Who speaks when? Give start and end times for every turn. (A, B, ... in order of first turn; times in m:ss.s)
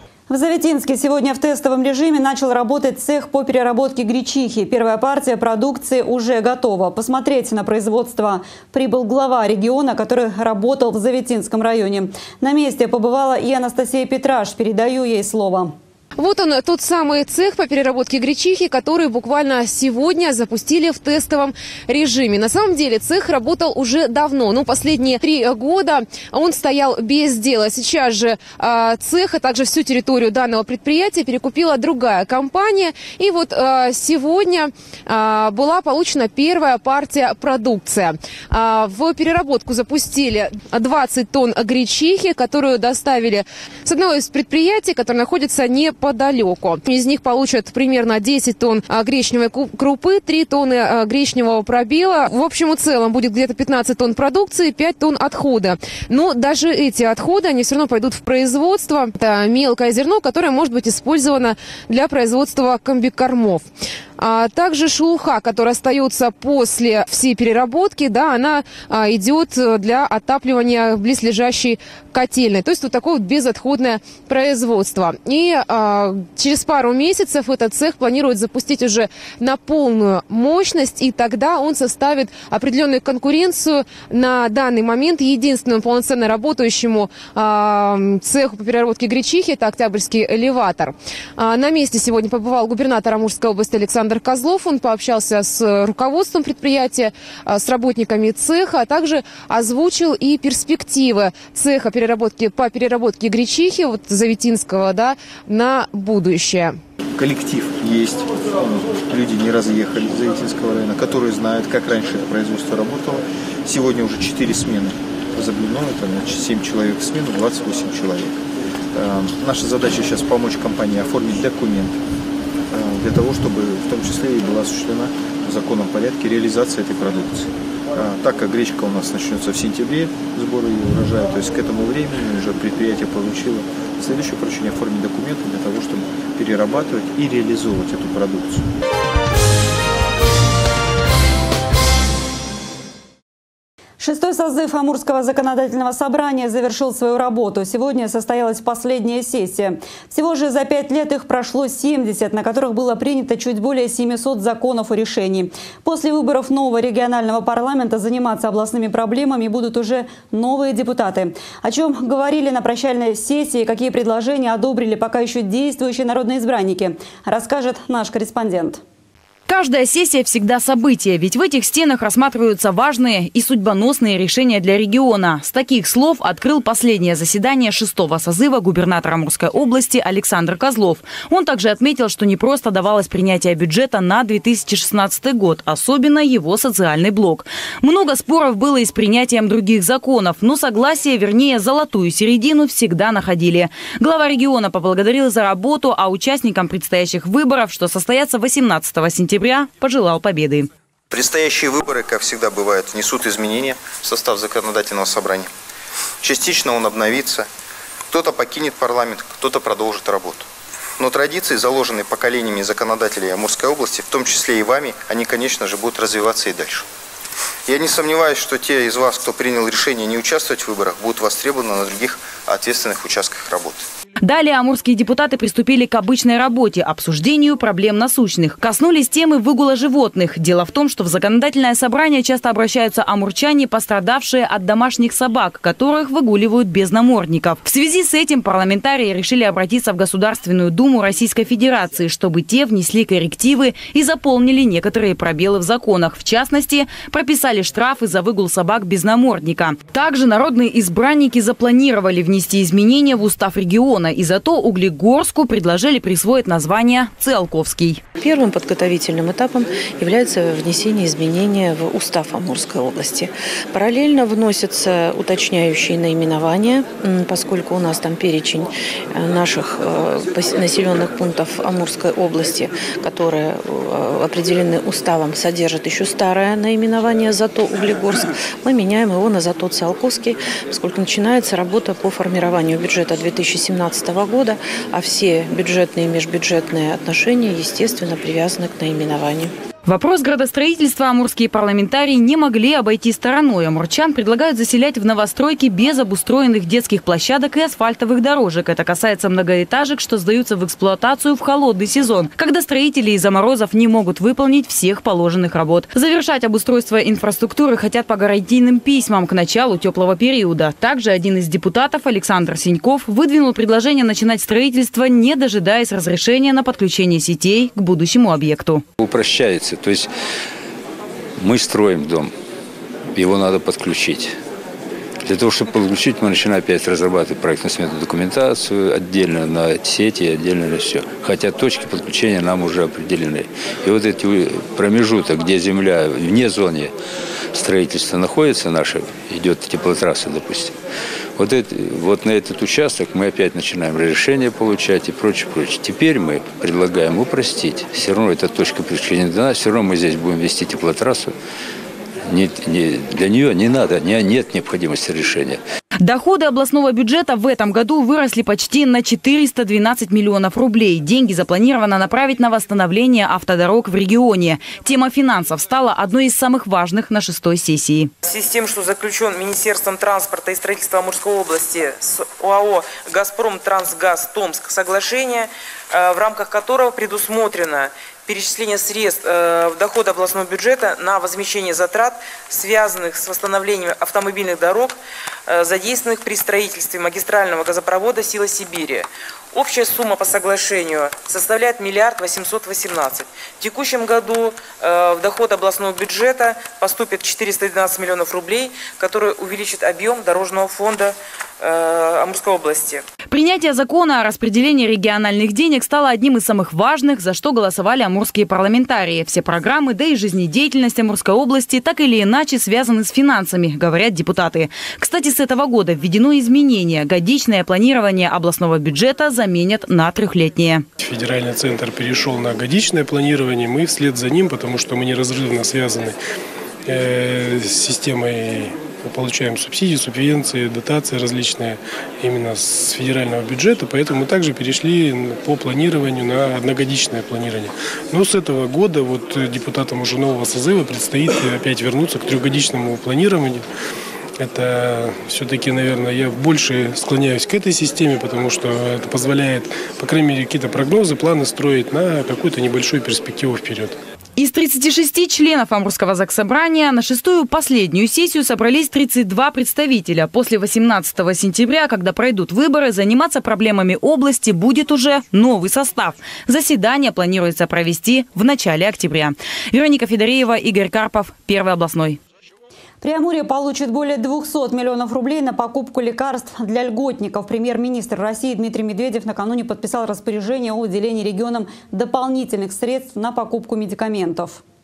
0:00.3-0:15.7 A
0:16.2-1:03.7 B
1:04.2-1:46.8 B
1:47.2-1:58.4 C
1:59.0-2:01.9 C
2:02.7-2:18.6 C
2:10.9-2:11.2 D
2:24.0-2:48.8 A
2:49.5-3:20.7 E
3:21.1-3:25.4 D
3:23.5-3:24.0 C
3:25.0-3:25.4 C
3:26.2-3:27.4 D
3:28.1-3:30.4 D
3:28.4-3:30.4 C
3:31.0-3:36.8 D
3:31.2-3:36.8 C
3:37.7-3:43.7 D
3:37.9-3:43.6 C
3:44.2-4:18.0 E
4:18.2-4:49.5 F
4:49.8-5:18.8 E
5:19.0-5:20.1 G
5:21.4-5:22.3 G
5:23.1-5:24.3 G
5:25.2-5:36.9 G
5:37.5-5:40.7 G
5:41.4-5:51.3 G
5:52.3-5:55.6 G
5:56.0-6:08.1 E
6:08.2-6:43.0 H
6:43.3-7:00.8 E
7:01.1-7:06.1 I
7:06.9-7:11.6 I
7:12.2-7:17.6 I
7:18.1-7:23.5 I
7:25.2-7:33.9 I
7:34.4-7:52.2 E
7:53.0-8:04.6 A